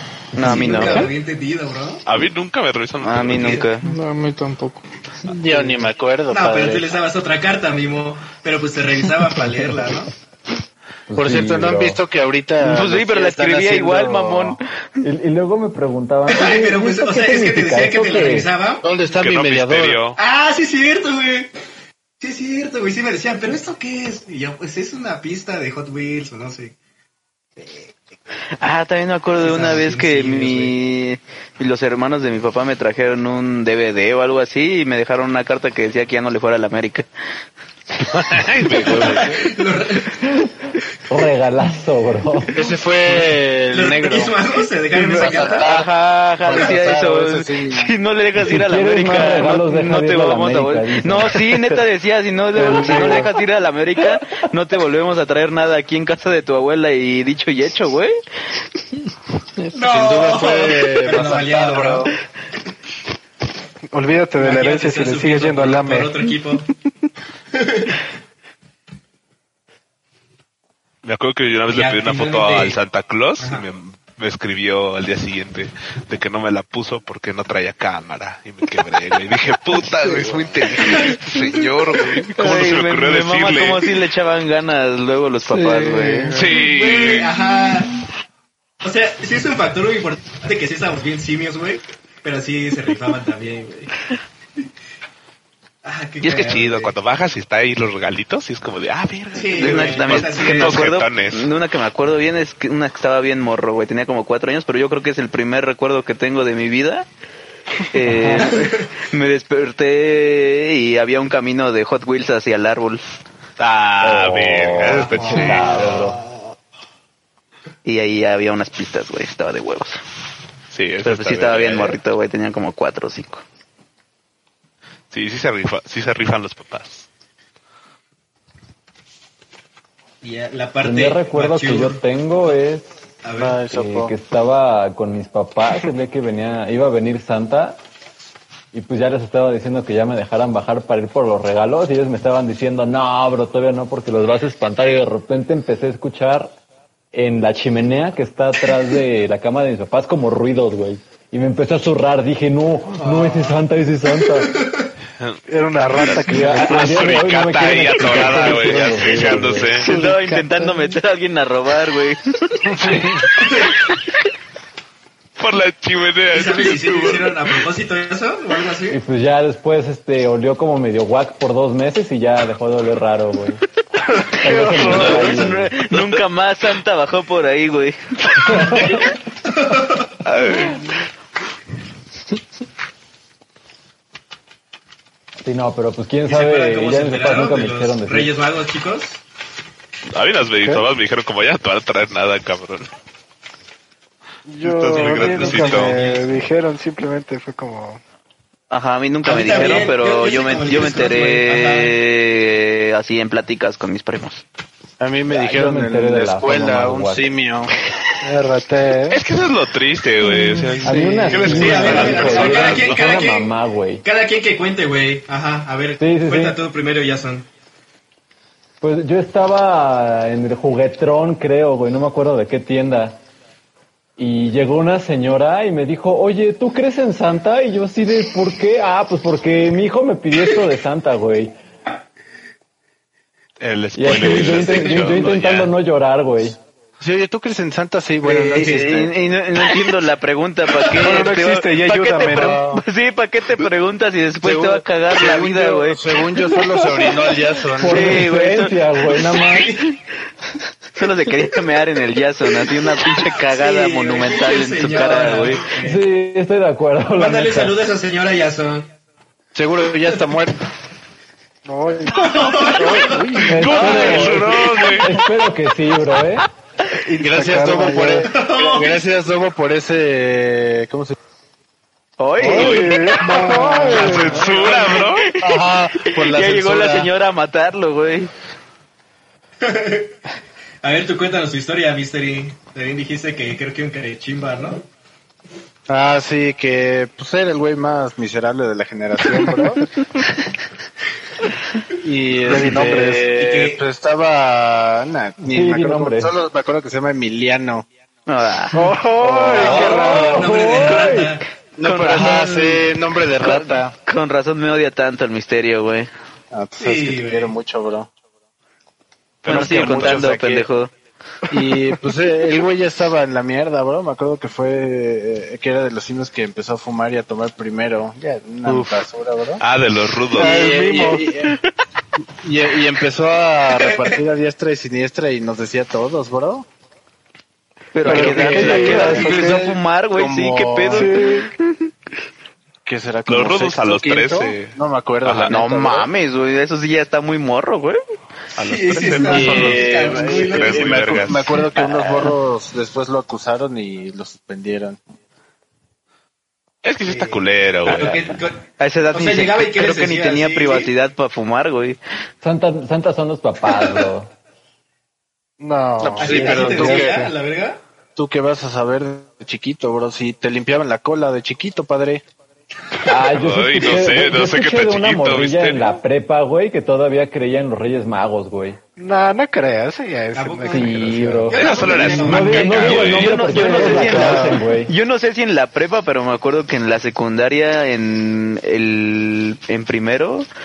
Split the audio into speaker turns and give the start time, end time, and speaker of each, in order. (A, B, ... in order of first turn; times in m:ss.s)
0:00.3-0:01.1 A
0:00.4-0:02.0 B
0:00.4-0:01.1 C
0:02.0-0:03.6 D
0:03.0-0:03.9 A
0:03.3-0:03.7 B
0:03.8-0:04.9 C
0:05.3-0:07.0 E
0:06.3-0:10.1 B
0:11.1-0:12.0 F
0:11.2-0:14.6 E
0:12.6-0:14.6 A
0:15.0-0:18.5 F
0:16.3-0:18.8 B
0:18.8-0:20.0 E
0:19.2-0:20.2 D
0:20.2-0:21.5 B
0:22.2-0:26.8 B
0:27.6-0:27.9 B
0:28.6-0:37.1 A
0:29.4-0:30.8 B
0:38.1-0:39.6 D
0:38.8-0:40.2 B
0:41.1-0:42.6 F
0:42.5-0:44.4 E
0:43.7-0:45.7 B
0:45.0-0:58.2 A
0:45.1-0:45.9 E
0:46.4-0:47.9 E
0:48.4-0:51.6 F
0:52.6-0:53.2 F
0:52.6-0:53.3 G
0:59.7-1:02.1 B
0:59.8-1:02.1 E
1:03.9-1:06.3 G
1:04.4-1:06.7 B
1:07.5-1:08.0 B
1:11.0-1:24.0 D
1:11.7-1:12.8 B
1:13.4-1:13.7 B
1:20.8-1:26.6 A
1:25.5-1:26.8 C
1:26.3-1:27.4 D
1:26.6-1:27.9 B
1:28.8-1:33.9 B
1:35.8-1:36.9 B
1:36.2-1:36.5 A
1:36.4-1:41.5 D
1:39.3-1:40.9 B
1:39.5-1:47.1 A
1:47.9-1:53.0 A
1:48.3-1:48.8 B
1:53.6-1:56.1 D
1:54.0-1:56.2 F
1:54.8-1:56.6 B
1:57.8-2:00.0 A
2:00.7-2:02.0 D
2:01.0-2:03.4 A
2:05.1-2:07.1 D
2:10.2-2:12.0 B
2:10.8-2:13.0 F
2:13.2-2:13.6 B
2:13.3-2:14.2 E
2:13.7-2:17.8 F
2:18.7-2:26.6 F
2:27.1-2:34.6 F
2:33.0-2:33.6 B
2:34.4-2:34.8 B
2:35.2-2:39.9 D
2:35.5-2:37.2 G
2:36.0-2:39.8 F
2:38.3-2:38.8 G
2:39.8-2:43.2 A
2:39.9-2:41.0 C
2:43.4-2:43.7 B
2:45.4-2:47.6 D
2:46.3-2:49.0 B
2:48.9-2:53.6 F
2:54.4-2:59.0 A
2:54.4-2:55.7 F
2:54.6-2:56.2 D
2:58.5-2:58.9 F
2:58.5-2:59.0 D
2:59.5-3:00.1 B
3:00.2-3:01.0 D
3:05.4-3:08.3 F
3:06.3-3:09.2 B
3:10.1-3:12.9 D
3:14.5-3:18.0 G
3:14.6-3:16.0 D
3:14.9-3:16.3 B
3:18.7-3:24.4 A
3:19.2-3:22.0 B
3:25.0-3:27.7 E
3:25.3-3:27.3 F
3:28.2-3:29.2 G
3:29.1-3:33.2 D
3:30.2-3:31.9 C
3:30.8-3:34.0 F
3:31.3-3:37.5 B
3:36.0-3:36.6 F
3:38.8-3:43.2 F
3:44.2-3:51.6 F
3:53.6-3:55.7 D
3:54.0-3:56.6 F
3:57.0-3:59.1 E
3:58.3-4:07.1 A
3:58.5-3:58.9 B
4:01.0-4:02.6 G
4:02.3-4:02.8 E
4:04.4-4:08.3 E
4:07.8-4:09.8 F
4:07.8-4:09.4 A
4:09.3-4:09.9 B
4:11.0-4:15.7 A
4:13.3-4:16.1 B
4:15.8-4:17.8 F
4:17.2-4:18.9 B
4:19.6-4:20.6 E
4:21.7-4:24.0 G
4:22.1-4:23.5 B
4:23.5-4:26.5 F
4:23.5-4:25.2 D
4:23.7-4:25.1 A
4:23.7-4:24.6 E
4:26.9-4:28.5 G
4:27.2-4:31.2 E
4:28.2-4:29.0 B
4:32.2-4:33.1 A
4:32.4-4:34.8 G
4:32.4-4:33.2 D
4:33.5-4:35.2 B
4:33.7-4:34.1 A
4:33.8-4:35.3 D
4:35.1-4:38.3 A
4:35.4-4:37.1 E
4:39.6-4:40.2 B
4:40.8-4:44.8 B
4:45.9-4:49.8 E
4:49.3-4:49.8 G
4:52.0-4:57.9 E
4:52.4-4:53.3 G
4:53.3-4:53.8 B
4:55.4-4:56.3 F
4:58.3-4:58.9 A
4:58.7-5:00.8 G
4:59.2-5:01.4 F
4:59.6-5:01.5 B
5:01.8-5:04.0 E
5:01.8-5:06.1 A
5:06.5-5:08.1 E
5:06.8-5:07.6 B
5:09.4-5:10.3 D
5:09.4-5:10.9 A
5:09.5-5:10.7 E
5:11.5-5:19.6 E
5:18.7-5:19.0 G
5:19.6-5:20.6 D
5:20.3-5:21.6 E
5:20.3-5:21.4 G
5:22.4-5:26.7 E
5:23.9-5:24.1 A
5:27.9-5:31.5 A
5:28.0-5:29.6 E
5:28.0-5:29.8 G
5:30.1-5:31.2 E
5:30.9-5:31.5 G
5:32.8-5:36.1 E
5:33.3-5:35.6 D
5:35.5-5:38.0 A
5:38.6-5:41.1 B
5:38.6-5:41.6 D
5:39.2-5:45.0 E
5:41.6-5:42.3 A
5:46.8-5:48.3 D
5:47.1-5:50.9 B
5:48.8-5:52.0 A
5:52.4-5:54.3 F
5:55.6-5:57.3 G
5:56.0-5:57.3 E
5:56.2-5:57.8 B
5:58.2-6:02.2 E
6:03.0-6:08.8 F
6:03.2-6:06.0 D
6:09.0-6:12.3 G
6:10.3-6:13.1 B
6:10.7-6:14.9 F
6:11.5-6:13.4 D
6:12.5-6:20.5 A
6:13.5-6:14.6 G